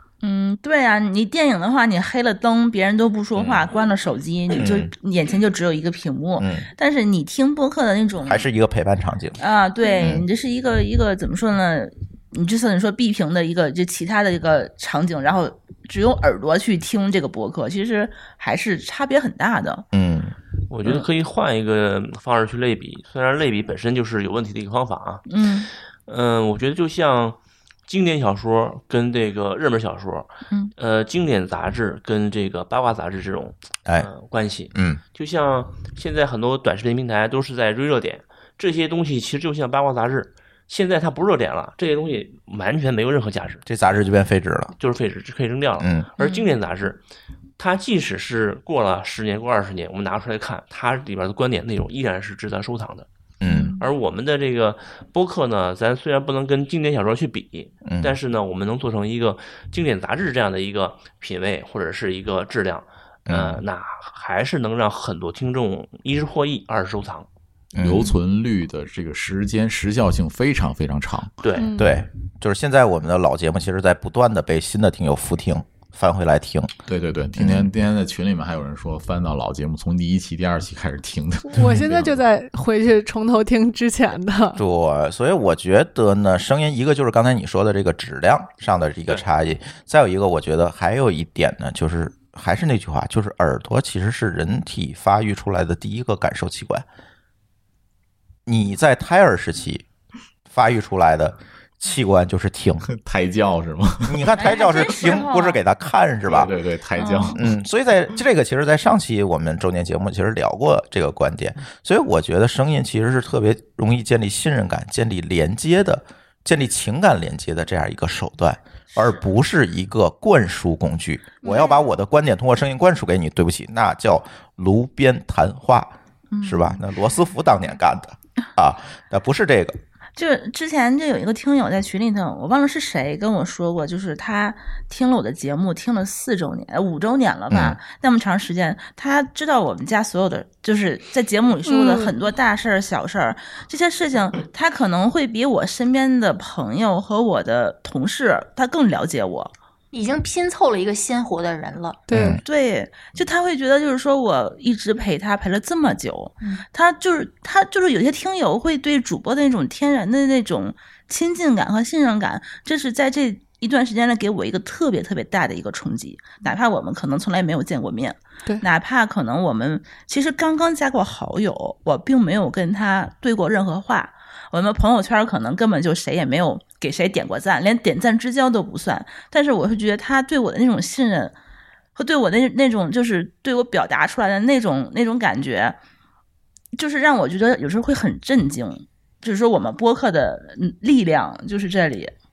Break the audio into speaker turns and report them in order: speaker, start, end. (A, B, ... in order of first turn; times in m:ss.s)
0:00.2-0:08.5 A
0:03.4-0:03.6 B
0:04.5-0:04.9 B
0:06.4-0:06.7 B
0:08.2-0:09.4 B
0:09.4-0:19.8 A
0:10.0-0:10.2 B
0:19.9-0:20.3 B
0:20.7-0:25.2 C
0:25.3-0:25.7 A
0:26.0-0:43.6 C
0:34.7-0:35.0 B
0:43.6-0:44.7 B
0:44.8-0:47.0 C
0:45.8-0:46.1 B
0:46.2-0:46.5 A
0:47.6-0:53.1 C
0:53.4-0:53.7 B
0:53.4-0:53.8 A
0:53.8-1:07.3 C
0:57.8-0:58.1 B
1:03.2-1:03.6 B
1:07.7-1:08.2 B
1:07.8-1:11.4 D
1:11.4-1:11.7 C
1:11.6-1:12.0 E
1:11.8-1:16.7 B
1:16.8-1:22.2 D
1:17.4-1:17.7 B
1:21.5-1:24.6 E
1:24.6-1:36.8 B
1:38.4-1:39.8 B
1:40.5-1:42.9 B
1:42.8-1:44.4 D
1:44.0-1:46.5 B
1:44.4-1:45.6 A
1:46.2-1:47.5 D
1:47.0-1:47.4 A
1:47.3-2:09.8 B
1:58.9-1:59.3 A
2:01.4-2:01.9 A
2:06.3-2:06.8 A
2:10.2-2:29.5 A
2:17.5-2:17.8 B
2:21.6-2:22.1 E
2:29.9-2:32.0 F
2:32.1-2:32.4 E
2:32.1-2:32.4 B
2:32.4-3:01.3 A
3:02.0-3:05.8 A
3:06.7-3:12.1 A